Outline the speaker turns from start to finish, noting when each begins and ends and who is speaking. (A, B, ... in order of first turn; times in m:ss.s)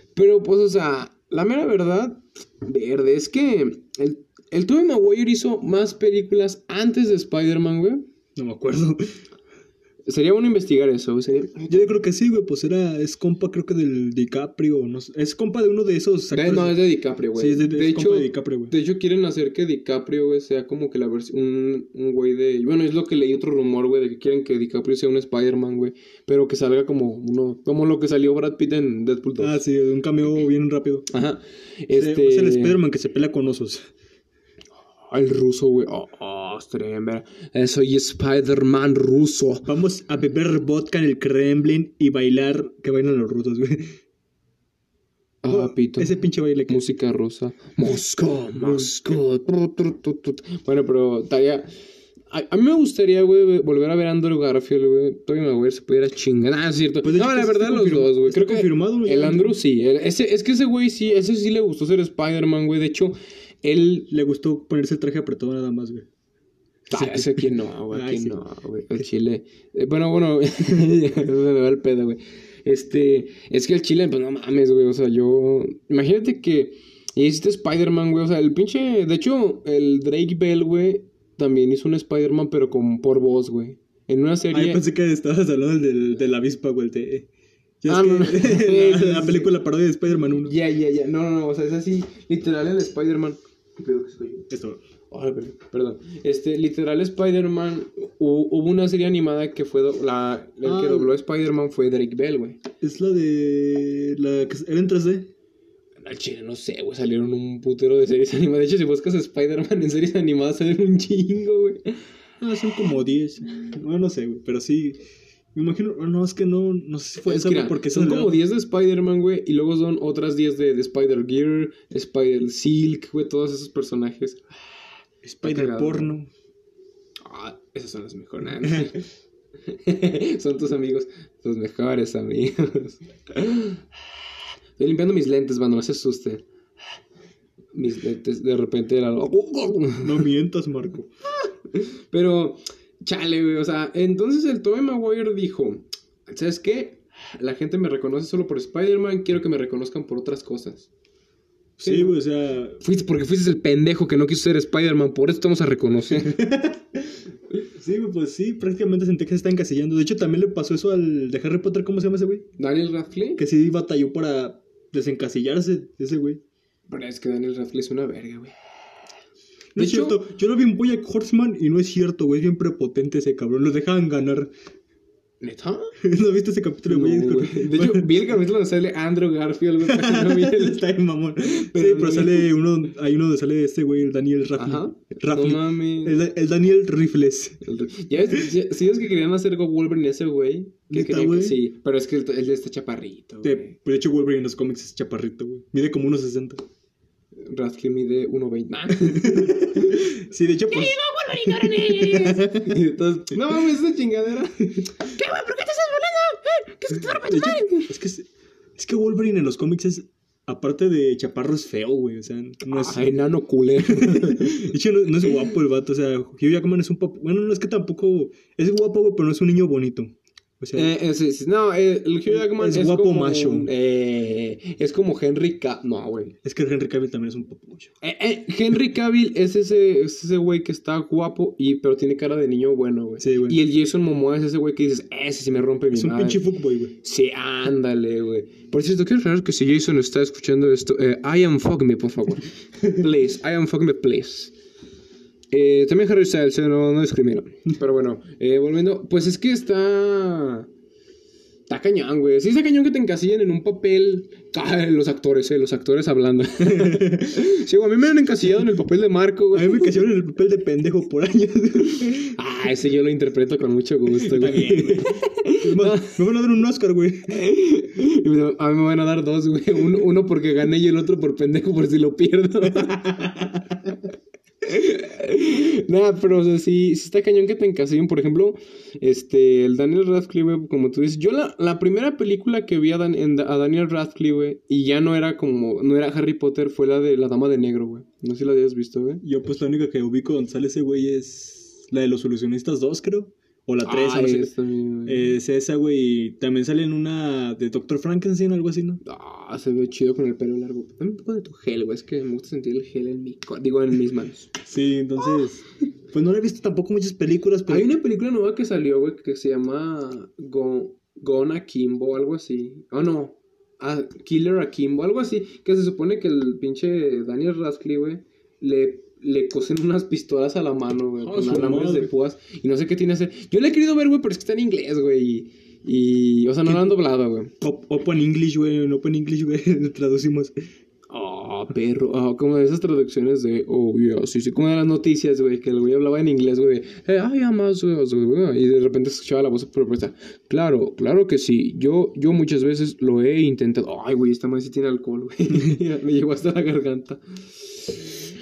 0:00.2-0:08.0 A
0:08.4-0:09.2 B
0:10.0-0:12.0 A
0:11.7-0:18.8 B
0:16.3-0:29.6 A
0:29.4-0:31.1 B
0:31.1-0:32.8 A
0:31.9-0:33.9 B
0:35.1-0:39.7 A
0:39.6-0:44.0 B
0:45.4-0:51.7 A
0:45.5-0:46.8 B
0:48.6-0:48.9 B
0:52.3-1:04.1 A
0:57.0-0:59.5 B
1:04.1-1:06.1 B
1:06.9-1:08.4 B
1:06.9-1:24.8 A
1:24.5-1:27.3 B
1:27.8-1:30.5 B
1:27.9-1:29.5 A
1:30.4-1:34.5 A
1:34.5-1:34.8 B
1:35.1-1:42.6 A
1:40.6-1:41.1 B
1:42.8-1:45.3 B
1:46.0-1:52.0 A
1:52.4-1:55.0 B
1:55.5-1:58.4 B
1:57.3-2:04.6 A
2:05.2-2:06.3 B
2:05.4-2:06.1 A
2:07.2-2:09.0 A
2:08.6-2:08.9 B
2:09.7-2:13.9 A
2:14.8-2:16.4 A
2:17.7-2:20.3 A
2:20.0-2:21.1 B
2:21.4-2:30.9 A
2:31.8-2:32.8 B
2:31.8-2:32.2 A
2:32.8-2:36.3 A
2:36.2-2:37.2 B
2:37.8-2:42.5 B
2:42.6-2:43.4 A
2:43.4-2:46.4 B
2:46.9-2:48.5 A
2:49.8-2:54.5 B
2:49.8-2:50.2 A
2:55.4-2:55.9 A
2:56.0-2:58.2 B
2:56.9-3:00.8 A
2:59.8-3:07.6 B
3:01.4-3:02.5 A
3:04.6-3:06.2 A
3:07.6-3:13.7 A
3:10.9-3:11.6 B
3:13.4-3:16.6 B
3:17.4-3:20.1 A
3:19.0-3:22.8 B
3:20.7-3:27.9 A
3:27.2-3:33.2 B
3:32.7-3:34.7 A
3:33.9-3:40.9 B
3:35.2-3:35.5 A
3:40.8-3:46.4 A
3:42.3-3:43.7 B
3:46.4-3:47.9 B
3:48.0-3:56.4 A
3:53.2-3:53.6 B
3:55.9-3:57.0 B
3:57.0-4:04.6 A
4:05.5-4:10.7 A
4:11.7-4:20.0 A
4:16.6-4:17.4 B
4:19.5-4:22.4 B
4:22.4-4:26.2 A
4:24.1-4:27.4 B
4:27.3-4:33.9 A
4:32.8-4:33.9 B
4:34.6-4:49.2 A
4:49.2-4:54.5 B
4:53.8-4:55.4 A
4:55.1-4:59.0 B
4:59.0-5:04.5 A
5:04.6-5:07.9 B
5:07.7-5:27.5 A
5:21.2-5:22.1 B
5:26.6-5:26.9 B
5:27.6-5:30.6 B
5:31.1-5:48.1 A